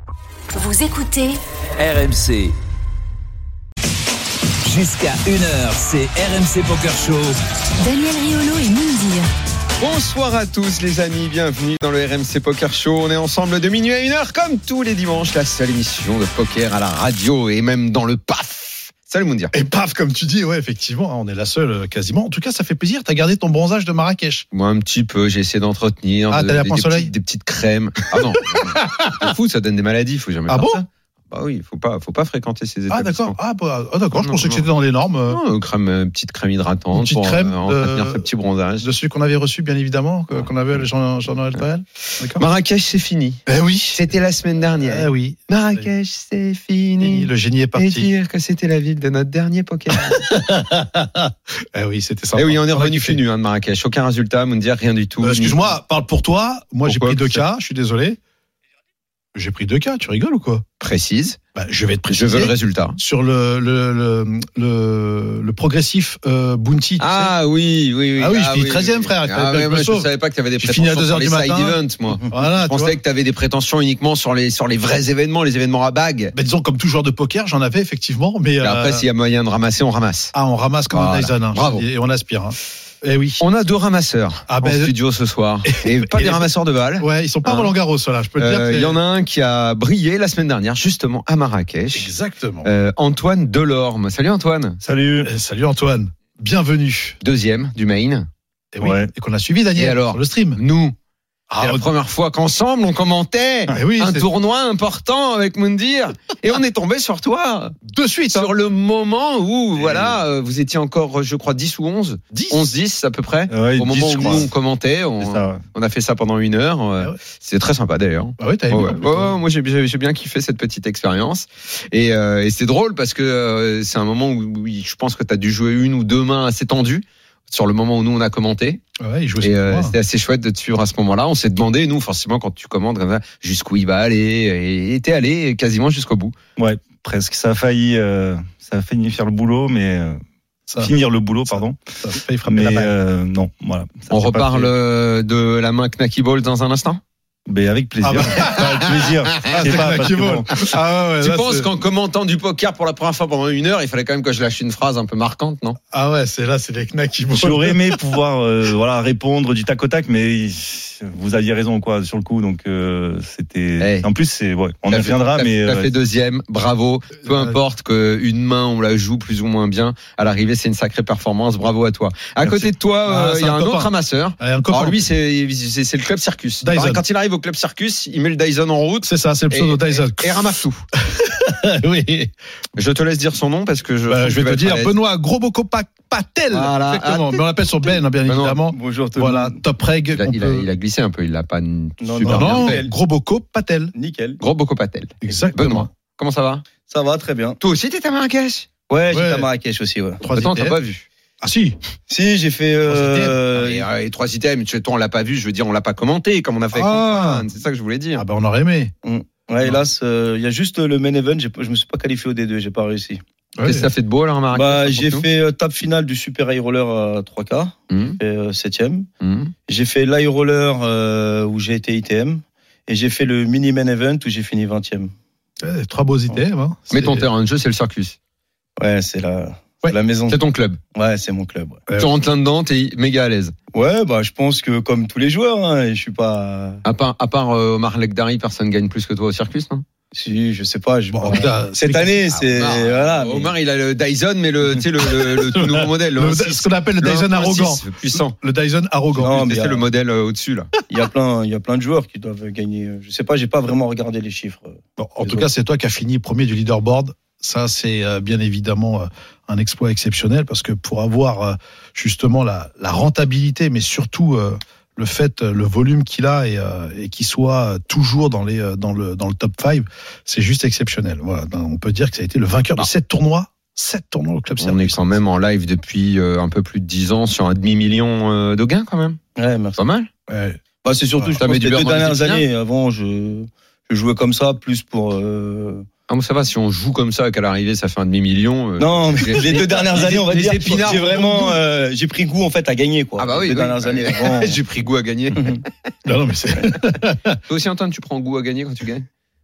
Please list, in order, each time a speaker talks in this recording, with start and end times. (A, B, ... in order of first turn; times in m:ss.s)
0:00.5-0:01.4 A
0:01.8-0:02.5 B
0:04.6-0:07.3 B
0:07.8-0:09.3 A
0:09.8-0:19.5 C
0:19.5-0:24.4 D
0:24.5-0:33.4 C
0:26.3-0:27.1 D
0:28.2-0:29.3 D
0:30.5-0:30.8 D
0:32.9-0:35.4 D
0:34.1-0:34.6 C
0:35.3-0:38.9 C
0:36.9-0:38.3 D
0:38.8-0:42.4 D
0:42.3-0:50.3 C
0:43.5-0:44.0 D
0:44.7-0:45.9 D
0:47.0-0:48.1 D
0:49.9-0:53.2 D
0:52.4-0:55.7 C
0:55.2-0:58.2 D
0:56.8-0:57.4 C
0:59.3-1:00.6 D
1:00.8-1:01.4 C
1:01.5-1:07.3 D
1:02.1-1:03.0 C
1:07.0-1:16.3 C
1:08.2-1:13.0 D
1:16.3-1:19.0 D
1:18.6-1:20.3 C
1:20.3-1:23.4 D
1:20.9-1:21.8 C
1:23.4-1:27.7 C
1:24.5-1:24.9 D
1:25.6-1:26.5 D
1:27.0-1:29.0 D
1:28.4-1:32.1 C
1:31.9-1:32.7 D
1:32.6-1:34.8 C
1:34.8-1:35.3 E
1:35.2-1:37.2 D
1:37.2-1:38.3 C
1:38.7-1:40.6 D
1:38.8-1:39.1 E
1:39.8-1:40.9 C
1:41.5-1:41.8 D
1:41.6-1:47.8 C
1:43.7-1:44.3 D
1:47.9-1:48.5 D
1:48.3-2:08.8 C
1:49.8-1:50.2 D
1:52.3-1:52.7 D
1:53.5-1:54.5 E
1:54.1-1:54.4 D
1:55.2-1:55.6 E
1:58.4-1:59.4 D
2:09.0-2:10.0 D
2:09.4-2:16.3 C
2:16.6-2:20.2 E
2:20.8-2:21.8 E
2:21.5-2:22.9 D
2:22.4-2:24.7 E
2:24.1-2:27.0 C
2:27.5-2:30.6 E
2:28.0-2:31.7 D
2:28.4-2:29.8 C
2:31.2-2:35.8 C
2:35.9-2:38.0 D
2:37.3-2:45.9 E
2:43.8-2:44.1 C
2:44.9-3:00.8 C
2:47.2-2:47.6 D
2:52.4-2:55.1 D
2:56.6-2:57.0 D
2:59.0-3:02.3 D
3:02.8-3:04.9 C
3:04.1-3:10.7 D
3:06.5-3:07.4 C
3:08.2-3:08.6 C
3:08.7-3:09.6 F
3:10.1-3:12.8 C
3:12.0-3:12.9 F
3:12.2-3:13.9 D
3:13.9-3:14.4 F
3:14.4-3:16.6 C
3:15.2-3:15.9 D
3:16.9-3:17.6 F
3:17.6-3:18.7 C
3:18.9-3:20.2 F
3:19.1-3:19.5 D
3:20.2-3:20.8 D
3:20.3-3:21.0 C
3:21.4-3:21.8 D
3:22.1-3:23.8 F
3:22.9-3:23.4 D
3:23.5-3:28.2 C
3:26.7-3:27.5 D
3:28.1-3:28.9 D
3:29.0-3:33.2 F
3:33.6-3:33.9 D
3:33.6-3:35.2 C
3:34.5-3:39.0 F
3:37.9-3:38.2 C
3:39.2-3:39.5 C
3:39.7-3:45.1 F
3:45.6-3:47.3 D
3:46.9-3:48.2 C
3:48.8-3:50.4 F
3:50.3-3:50.8 C
3:50.9-3:51.8 F
3:52.0-3:53.5 C
3:53.7-3:56.8 F
3:56.8-3:59.8 C
4:00.1-4:03.5 F
4:01.1-4:02.2 D
4:02.4-4:08.4 C
4:05.0-4:09.4 D
4:09.2-4:10.7 C
4:09.2-4:09.8 F
4:10.9-4:15.5 F
4:15.0-4:35.2 D
4:34.6-4:39.2 C
4:39.4-4:39.8 F
4:39.8-4:40.1 C
4:40.3-4:40.6 D
4:40.8-4:45.8 F
4:41.4-4:42.4 C
4:46.1-4:51.6 C
4:48.8-4:54.6 F
4:53.2-4:55.7 C
4:56.0-4:57.4 D
4:57.4-4:59.0 C